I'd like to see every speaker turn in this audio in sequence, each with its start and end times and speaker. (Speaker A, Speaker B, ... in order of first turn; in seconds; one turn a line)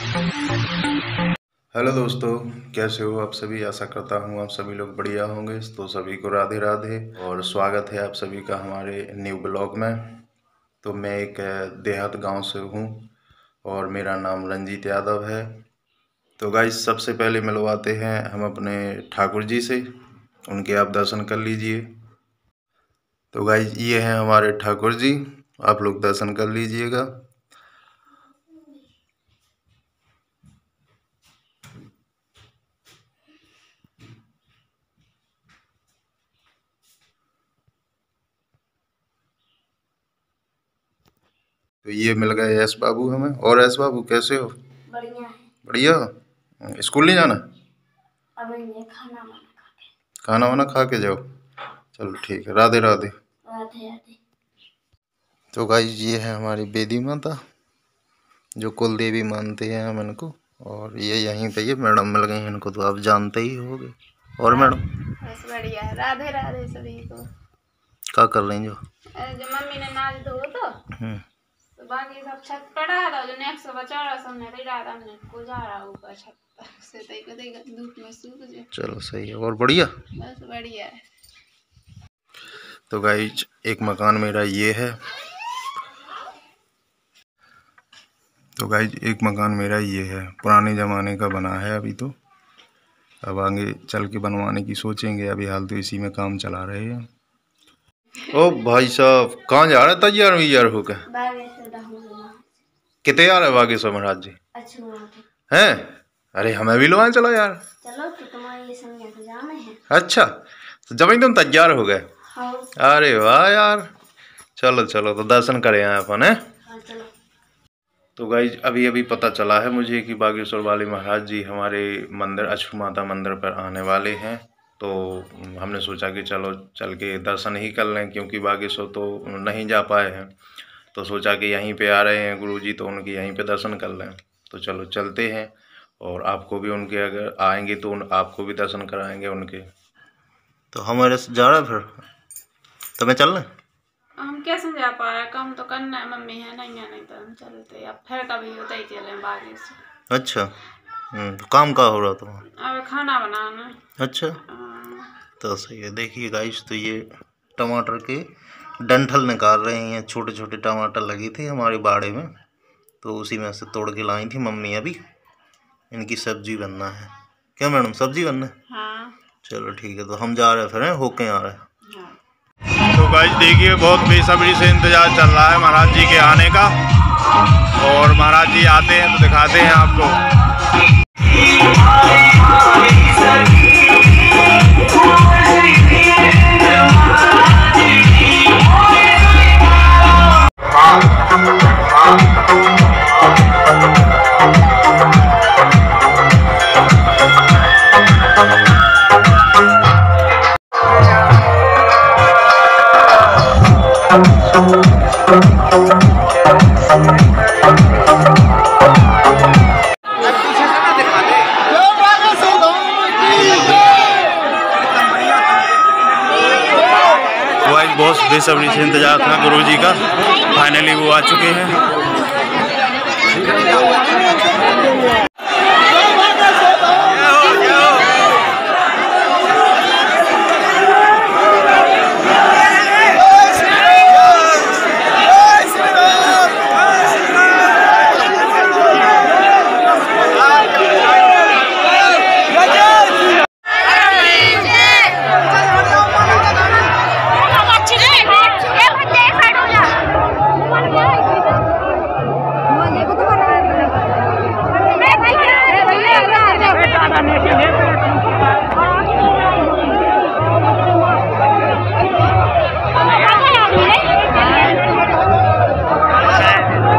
Speaker A: 1.8-10.2
Speaker A: 10.8-13.1
Speaker A: 13.7-15.5
Speaker A: 16.4-19.8
Speaker A: 20.5-21.8
Speaker A: 23.3-27.1
Speaker A: 41.8-44.5
Speaker B: 44.9-45.5
Speaker A: 45.7-46.0
Speaker A: 46.7-47.4
Speaker B: 48.4-49.9
Speaker A: 50.2-51.2
Speaker A: 52.0-53.1
Speaker B: 53.5-54.2
Speaker A: 55.5-57.4
Speaker A: 58.6-64.8
Speaker C: 64.5-67.2
Speaker A: 68.1-68.8
Speaker C: 69.2-70.7
Speaker A: 71.0-71.2
Speaker C: 71.8-78.7
Speaker A: 78.7-79.9
Speaker C: 80.2-81.0
Speaker A: 82.9-84.9
Speaker A: 88.6-92.1
Speaker A: 93.2-97.0
Speaker A: 98.3-101.0
Speaker B: 101.1-102.4
Speaker A: 103.0-104.3
Speaker B: 104.5-105.2
Speaker A: 105.5-107.6
Speaker B: 107.8-109.8
Speaker A: 109.9-110.3
Speaker A: 110.9-112.0
Speaker B: 112.3-112.7
Speaker A: 112.8-113.8
Speaker A: 114.6-116.3
Speaker B: 116.7-117.1
Speaker A: 118.2-130.3
Speaker A: 130.9-139.7
Speaker A: 140.7-141.9
Speaker A: 143.0-143.5
Speaker C: 144.2-149.8
Speaker A: 150.1-150.4
Speaker A: 151.1-152.4
Speaker C: 152.6-153.8
Speaker A: 154.0-154.4
Speaker C: 154.5-155.1
Speaker A: 155.4-157.1
Speaker A: 157.6-158.2
Speaker A: 158.8-162.3
Speaker A: 163.0-165.0
Speaker A: 165.9-168.5
Speaker C: 168.7-169.2
Speaker A: 169.4-171.6
Speaker C: 171.9-172.2
Speaker A: 172.9-176.8
Speaker A: 177.8-180.2
Speaker A: 217.6-221.8
Speaker B: 252.9-253.3
Speaker C: 255.0-257.4